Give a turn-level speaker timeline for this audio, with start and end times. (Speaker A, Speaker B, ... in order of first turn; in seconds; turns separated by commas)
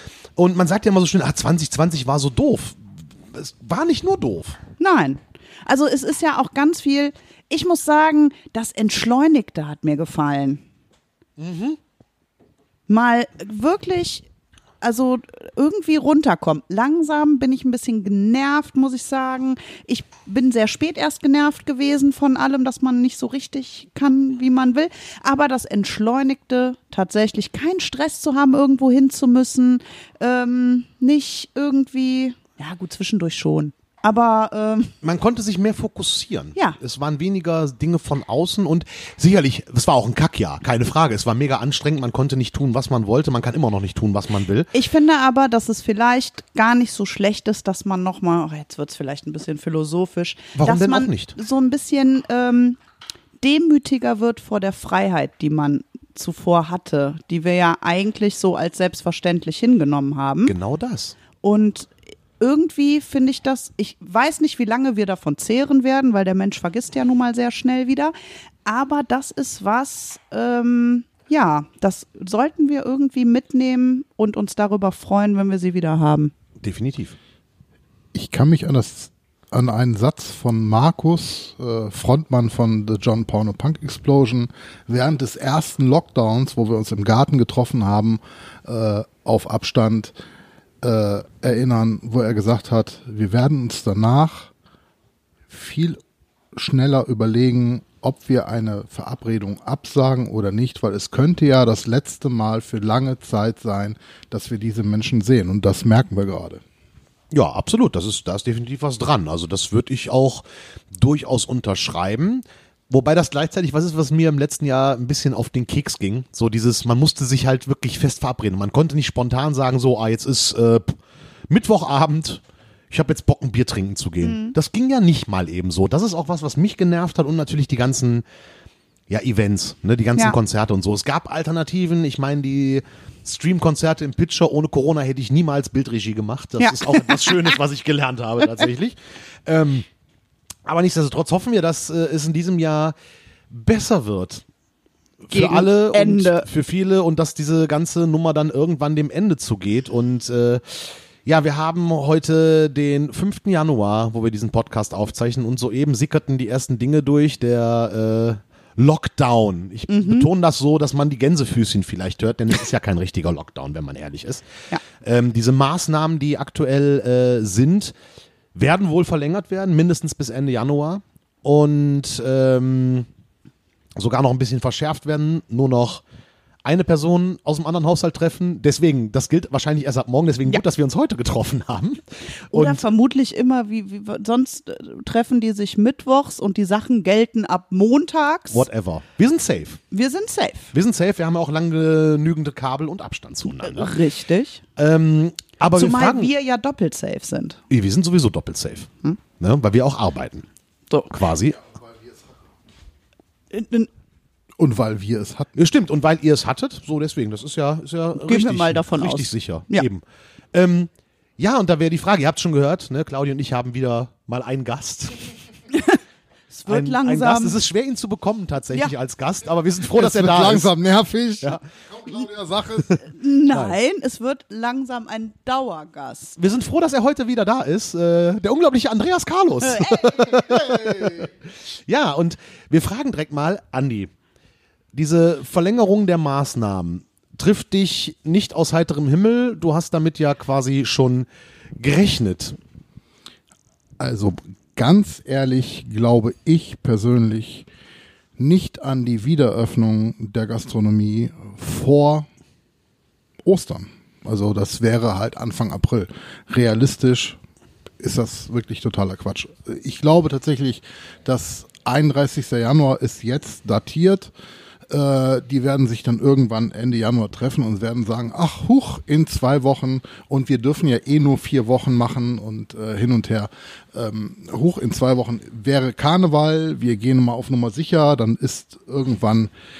Speaker A: 0.3-2.8, Speaker A: 3.3-4.6, Speaker B: 4.8-10.6, Speaker A: 11.4-11.8, Speaker B: 12.9-14.2, Speaker B: 14.8-34.9, Speaker A: 35.0-44.7, Speaker B: 44.7-52.8, Speaker A: 50.5-51.3, Speaker B: 53.4-60.5, Speaker A: 60.5-61.1, Speaker B: 61.4-76.3, Speaker A: 76.6-77.2, Speaker C: 78.1-90.1, Speaker C: 90.8-94.5, Speaker C: 95.5-96.0, Speaker C: 96.5-106.6, Speaker A: 107.3-128.2, Speaker B: 124.2-124.5, Speaker A: 129.1-139.8, Speaker B: 136.6-137.6, Speaker A: 140.6-142.9, Speaker A: 143.5-144.4, Speaker A: 145.3-167.9, Speaker B: 145.3-146.4, Speaker B: 159.9-160.3, Speaker A: 168.5-173.1, Speaker A: 173.9-176.0, Speaker A: 176.6-182.8, Speaker B: 182.5-188.6, Speaker A: 188.5-189.8, Speaker B: 189.9-190.7, Speaker A: 190.7-194.0, Speaker B: 193.5-194.6, Speaker A: 194.8-196.3, Speaker B: 195.7-197.6, Speaker A: 197.7-200.4, Speaker B: 200.9-201.2, Speaker A: 201.1-201.6, Speaker C: 201.7-202.2, Speaker B: 203.5-203.9, Speaker C: 204.6-205.5, Speaker A: 205.6-215.4, Speaker B: 208.2-209.9, Speaker B: 215.7-216.0, Speaker B: 216.5-217.6, Speaker A: 216.7-220.7, Speaker C: 219.9-222.9, Speaker A: 222.8-223.8, Speaker B: 223.0-226.3, Speaker A: 226.4-234.1, Speaker B: 229.6-230.3, Speaker C: 230.2-231.3, Speaker A: 234.9-241.3, Speaker A: 241.8-242.6, Speaker C: 244.0-247.7, Speaker C: 248.4-252.3, Speaker C: 253.4-257.4, Speaker C: 258.0-264.3, Speaker C: 264.9-279.5